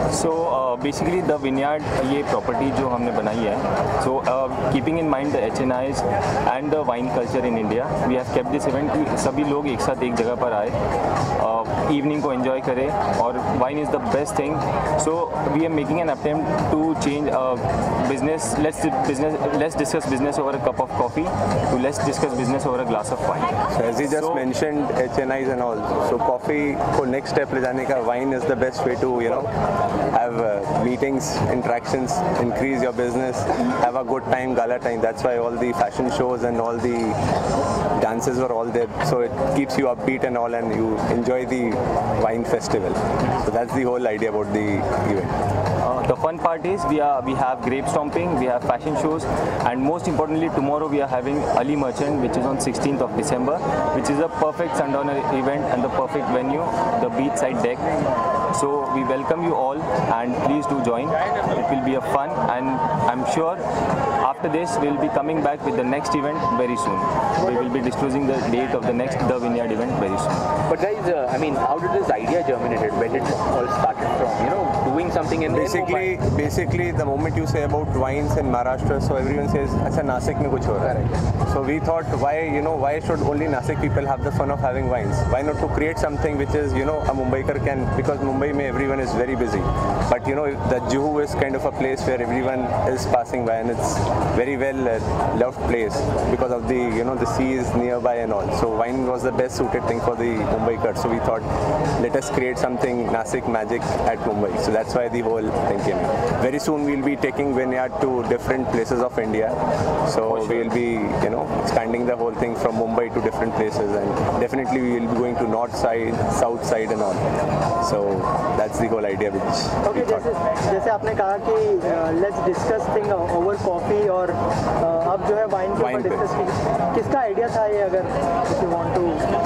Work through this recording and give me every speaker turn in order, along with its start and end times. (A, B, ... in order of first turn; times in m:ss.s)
0:00.1-0:10.8 A
0:11.4-0:23.5 A
0:23.7-0:29.5 B
0:24.0-0:24.5 A
0:30.1-0:37.2 B
0:38.0-0:45.4 B
0:45.8-0:57.8 A
0:58.5-1:03.6 A
1:04.2-1:10.5 A
1:10.7-1:16.1 C
1:15.5-1:20.9 B
1:20.8-1:21.2 C
1:21.5-1:41.5 B
1:42.0-1:57.2 B
1:57.8-2:00.3 B
1:59.8-2:09.2 D
2:05.8-2:06.2 B